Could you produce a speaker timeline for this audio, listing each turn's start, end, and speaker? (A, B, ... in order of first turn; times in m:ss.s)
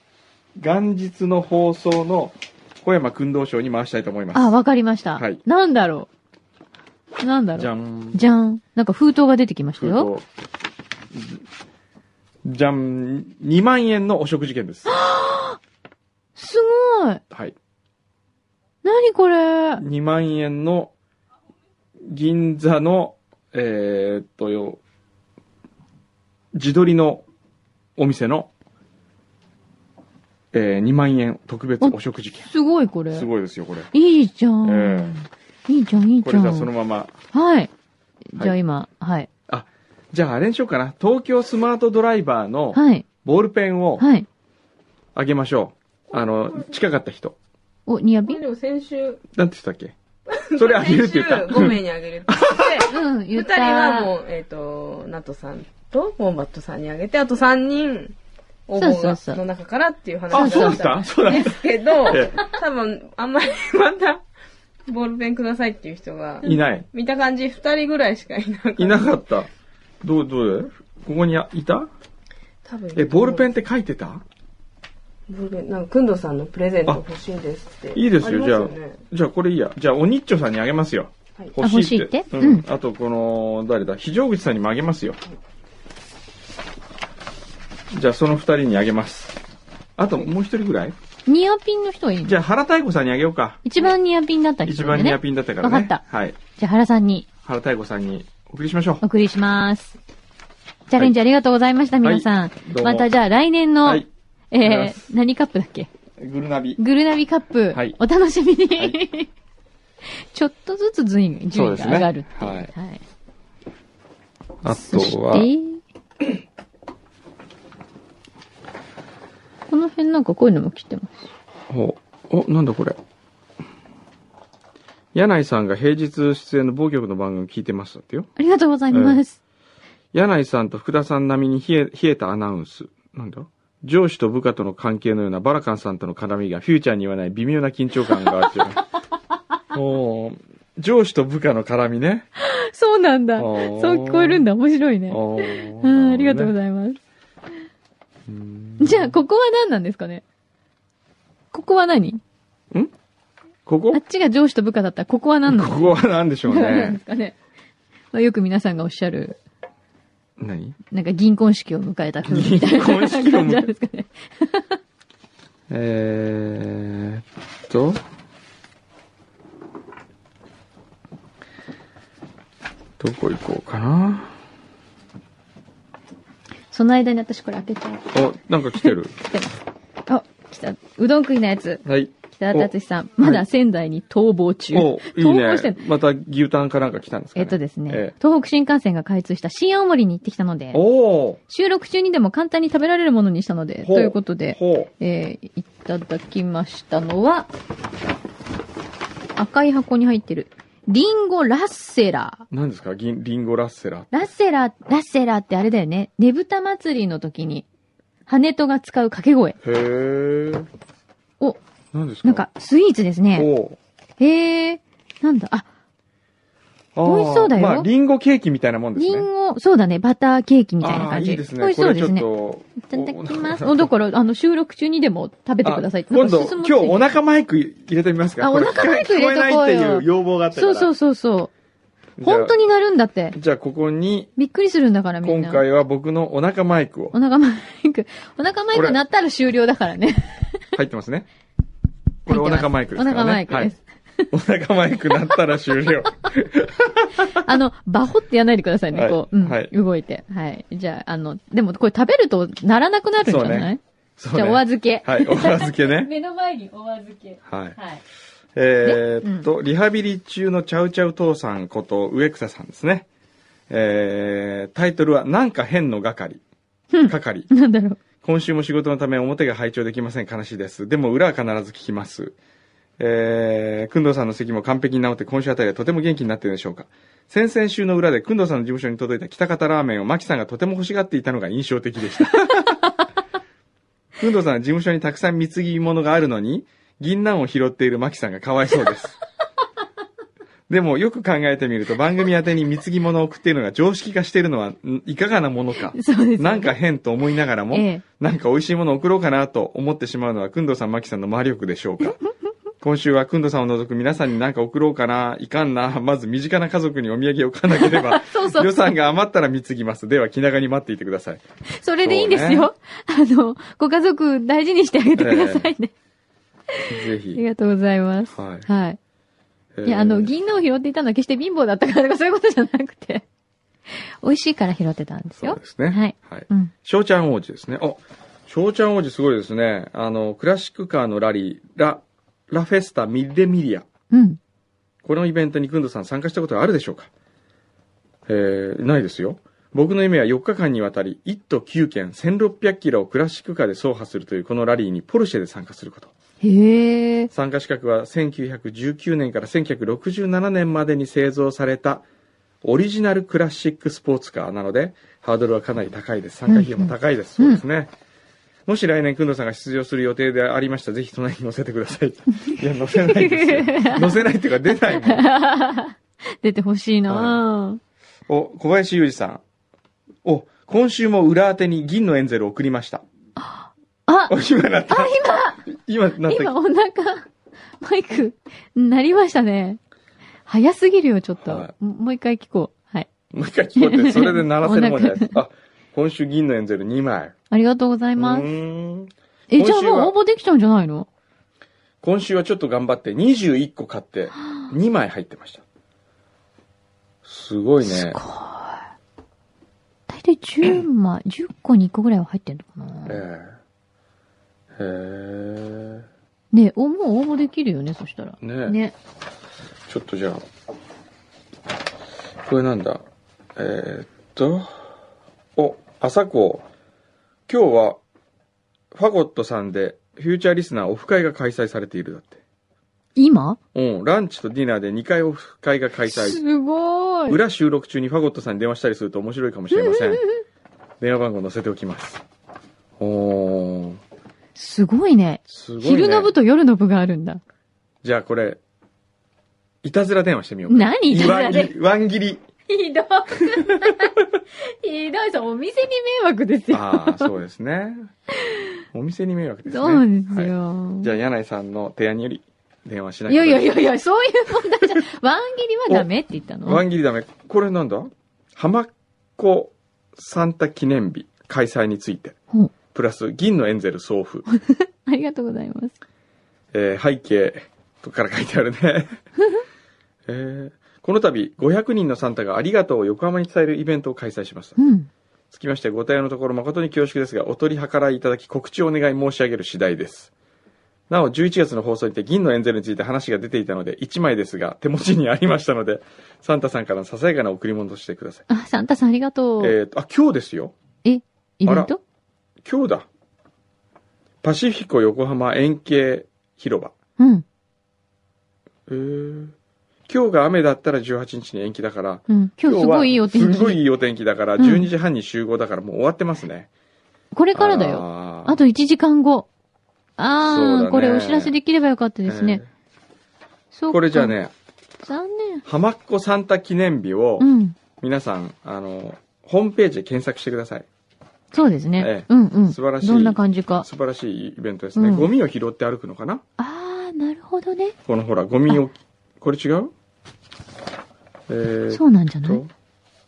0:00.6-0:04.6 A
0:04.3-0:06.1 B
0:07.2-0:10.1 B
0:07.6-0:08.2 A
0:09.8-0:10.2 A
0:11.1-0:11.4 A
0:12.4-0:14.9 A
0:14.9-0:15.6 B
0:16.4-0:17.2 B
0:18.8-0:19.8 B
0:19.8-0:20.9 A
0:22.0-0:24.8 A
0:26.5-0:27.2 A
0:28.0-0:28.5 A
0:30.5-0:32.5 A
0:31.8-0:33.3 B
0:33.1-0:33.9 A
0:33.9-0:36.7 B
0:34.6-0:35.2 A
0:36.2-0:37.2 A
0:37.3-0:37.7 B
0:38.3-0:39.3 B
0:39.5-0:44.1 A
0:42.7-0:43.1 B
0:44.0-0:44.3 B
0:45.2-0:47.4 A
0:47.9-0:48.4 B
0:48.3-0:49.2 C
0:49.3-0:49.9 A
0:50.3-0:58.2 C
0:50.6-0:52.9 A
0:52.9-0:54.1 B
0:58.7-1:04.2 C
0:58.8-0:59.4 B
1:00.3-1:02.4 A
1:00.3-1:01.5 B
1:04.9-1:09.2 C
1:06.4-1:06.9 A
1:08.8-1:09.5 A
1:10.0-1:11.9 A
1:12.6-1:13.5 C
1:13.0-1:14.2 A
1:15.3-1:19.0 C
1:17.9-1:25.2 A
1:21.6-1:22.7 B
1:27.9-1:29.4 A
1:30.0-1:31.0 A
1:31.3-1:32.4 B
1:32.2-1:33.6 A
1:33.6-1:36.0 B
1:34.6-1:36.4 A
1:36.5-1:37.3 B
1:37.4-1:39.0 A
1:39.0-1:40.0 B
1:40.9-1:45.9 B
1:42.0-1:43.1 A
1:44.6-1:45.1 A
1:46.2-1:46.8 A
1:46.8-1:49.3 B
1:47.7-1:48.0 A
1:50.3-1:53.0 B
1:51.5-1:52.7 A
1:54.6-1:55.5 A
1:54.7-1:55.8 B
1:59.7-2:01.3 B
2:01.7-2:03.0 A
2:05.1-2:08.3 A
2:08.4-2:09.4 B
2:08.9-2:09.2 A
2:10.1-2:18.8 A
2:19.7-2:22.3 A
2:22.4-2:27.0 B
2:23.4-2:24.4 A
2:25.1-2:26.5 A
2:28.3-2:29.2 A
2:28.8-2:30.2 B
2:31.5-2:32.2 B
2:33.7-2:34.0 A
2:33.9-2:35.9 B
2:35.5-2:37.0 A
2:36.4-2:37.4 B
2:38.1-2:39.4 B
2:40.4-2:40.8 A
2:40.9-2:44.8 B
2:42.3-2:43.7 A
2:45.7-2:48.0 A
2:53.0-2:54.3 A
2:56.7-2:58.2 B
2:58.1-2:59.2 A
2:58.8-2:59.5 B
3:00.1-3:05.8 B
3:01.8-3:03.4 A
3:04.7-3:08.1 A
3:07.4-3:10.8 B
3:10.7-3:11.4 A
3:11.5-3:17.5 B
3:13.8-3:14.9 A
3:19.4-3:22.4 B
3:22.5-3:24.1 A
3:24.1-3:27.6 B
3:28.3-3:29.6 B
3:29.6-3:30.7 A
3:31.9-3:32.4 A
3:32.2-3:33.5 B
3:33.3-3:33.8 A
3:34.2-3:35.7 B
3:37.0-3:39.3 A
3:37.0-3:37.9 B
3:39.0-3:42.3 B
3:40.8-3:43.9 A
3:42.8-3:47.0 B
3:45.6-3:50.9 A
3:48.4-3:51.5 B
3:52.2-3:52.6 A
3:52.2-3:53.4 B
3:53.3-3:54.3 A
3:54.4-3:55.6 B
3:55.2-3:57.2 A
3:57.1-4:00.6 B
3:58.7-3:59.0 A
4:00.8-4:01.3 A
4:02.3-4:03.7 A
4:02.3-4:04.3 B
4:04.3-4:07.4 A
4:07.3-4:13.8 B
4:08.9-4:09.7 A
4:13.2-4:16.1 A
4:14.3-4:18.0 B
4:17.5-4:17.8 A
4:18.6-4:23.1 A
4:18.8-4:19.5 B
4:23.7-4:26.4 A
4:26.9-4:28.0 B
4:27.1-4:27.5 A
4:28.2-4:32.4 A
4:33.0-4:42.8 A
4:44.2-4:49.2 A
4:50.7-5:02.2 A
4:55.9-4:56.8 B
4:57.7-4:58.0 B
5:02.8-5:11.4 A
5:07.7-5:08.8 B
5:11.7-5:15.9 B
5:12.0-5:12.7 A
5:15.2-5:15.7 A
5:16.7-5:19.0 B
5:16.9-5:17.4 A
5:18.3-5:18.7 A
5:19.7-5:20.3 A
5:19.8-5:23.2 B
5:23.9-5:26.7 B
5:25.4-5:33.9 A
5:34.1-5:34.4 B
5:35.0-5:37.1 A
5:38.3-5:46.1 A
5:46.4-5:47.3 B
5:47.3-5:52.0 A
5:52.6-5:57.9 A
5:56.5-5:57.6 B
5:58.7-6:05.3 A
6:02.5-6:04.2 B
6:04.9-6:07.8 B
6:07.1-6:07.4 A
6:08.3-6:09.4 A
6:10.2-6:13.0 A
6:13.4-6:14.4 B
6:14.3-6:16.5 A
6:14.9-6:15.6 B
6:16.2-6:17.3 B
6:17.8-6:19.8 B
6:20.5-6:23.1 B
6:21.4-6:21.7 A
6:23.3-6:27.4 A
6:23.8-6:25.4 B
6:27.5-6:28.5 B
6:28.2-6:30.2 A
6:29.5-6:31.1 B
6:32.0-6:35.6 A
6:37.2-6:38.2 A
6:37.8-6:38.8 B
6:40.1-6:43.2 B
6:43.1-6:43.6 A
6:44.8-6:46.0 A
6:46.5-6:48.9 B
6:48.4-6:48.8 A
6:49.9-6:50.4 A
6:52.4-6:53.0 A
6:53.6-6:54.9 A
6:55.6-6:56.6 A
6:57.5-6:58.0 A
6:58.9-7:02.4 A
7:03.2-7:03.6 B
7:03.7-7:06.4 A
7:06.1-7:07.4 B
7:07.3-7:10.2 A
7:09.7-7:10.4 B
7:11.0-7:12.2 A
7:13.0-7:14.0 A
7:14.6-7:17.4 B
7:15.5-7:16.3 A
7:18.0-7:18.6 A
7:19.8-7:22.4 A
7:20.7-7:21.7 B
7:22.7-7:27.3 B
7:23.5-7:23.9 A
7:26.7-7:28.1 A
7:28.4-7:28.7 B
7:28.9-7:33.8 A
7:29.7-7:31.1 B
7:33.3-7:36.8 B
7:36.6-7:42.4 A
7:42.9-7:44.4 A
7:44.5-7:46.0 B
7:46.7-7:49.2 A
7:50.3-7:54.8 A
7:54.8-7:55.1 B
7:55.5-8:00.3 A
8:01.1-8:08.4 A
8:08.5-8:09.8 B
8:09.6-8:10.8 A
8:11.0-8:12.0 B
8:11.7-8:11.9 A
8:12.6-8:13.1 A
8:14.4-8:16.9 A
8:17.2-8:17.4 B
8:18.9-8:19.5 A
8:20.1-8:26.7 A
8:22.3-8:23.8 B
8:24.6-8:24.9 B
8:27.3-8:29.5 B
8:27.6-8:28.6 A
8:30.2-8:32.6 B
8:30.4-8:31.5 A
8:32.3-8:32.7 A
8:33.7-8:34.3 B
8:33.9-8:34.5 A
8:35.0-8:35.6 B
8:35.6-8:40.9 A
8:37.4-8:37.8 B
8:41.5-8:43.9 B
8:42.0-8:46.4 A
8:45.0-8:45.3 B
8:46.6-8:48.0 B
8:48.1-8:49.9 A
8:51.5-8:52.7 A
8:51.9-8:52.6 B